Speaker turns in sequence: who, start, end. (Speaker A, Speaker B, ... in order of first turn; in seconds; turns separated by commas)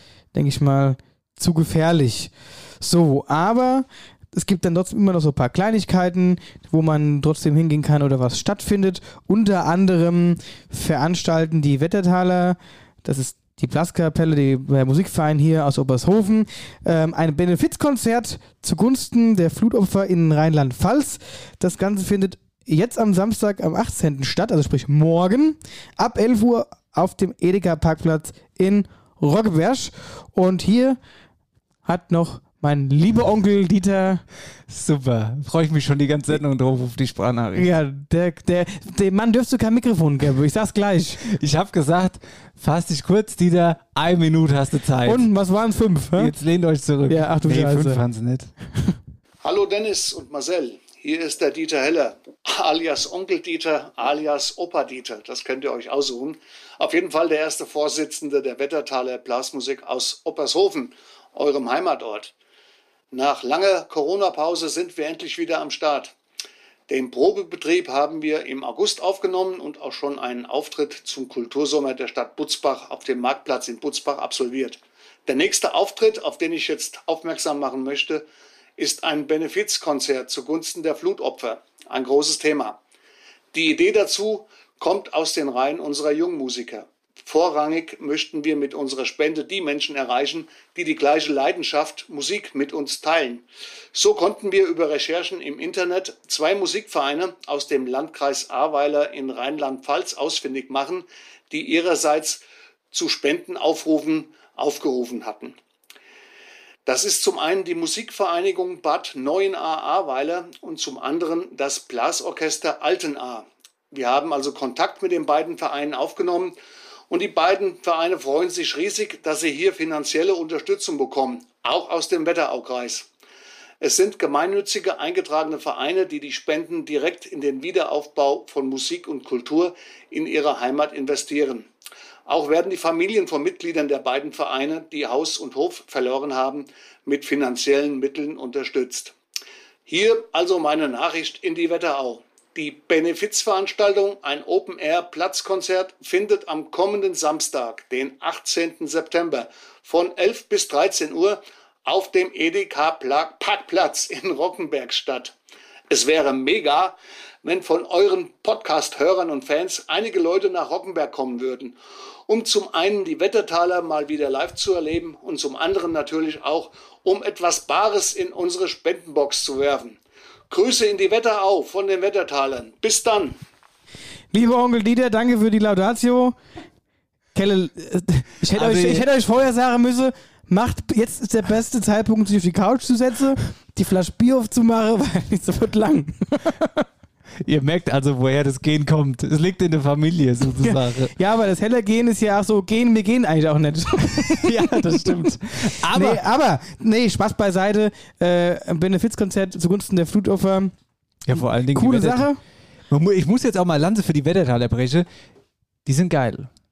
Speaker A: 0.3-31.0, Speaker A: 31.9-34.2, Speaker B: 34.7-37.7, Speaker A: 37.5-41.2, Speaker B: 41.2-45.3, Speaker A: 45.1-46.3, Speaker B: 46.2-48.5, Speaker A: 47.1-48.0, Speaker C: 49.4-62.3, Speaker C: 63.1-66.2, Speaker C: 66.9-78.2, Speaker C: 78.8-82.8, Speaker C: 83.5-105.6, Speaker C: 106.9-116.6, Speaker C: 117.1-123.1, Speaker C: 123.8-131.7, Speaker C: 132.3-139.2, Speaker C: 139.9-155.3, Speaker C: 155.9-161.8, Speaker C: 162.3-170.0, Speaker C: 170.5-173.4, Speaker A: 174.3-176.4, Speaker A: 177.3-186.9, Speaker B: 178.5-179.1, Speaker B: 187.4-191.1, Speaker A: 190.6-194.8, Speaker B: 194.2-196.2, Speaker A: 195.8-200.7, Speaker B: 201.3-202.3, Speaker A: 201.4-202.4, Speaker B: 202.9-205.1, Speaker B: 205.9-206.5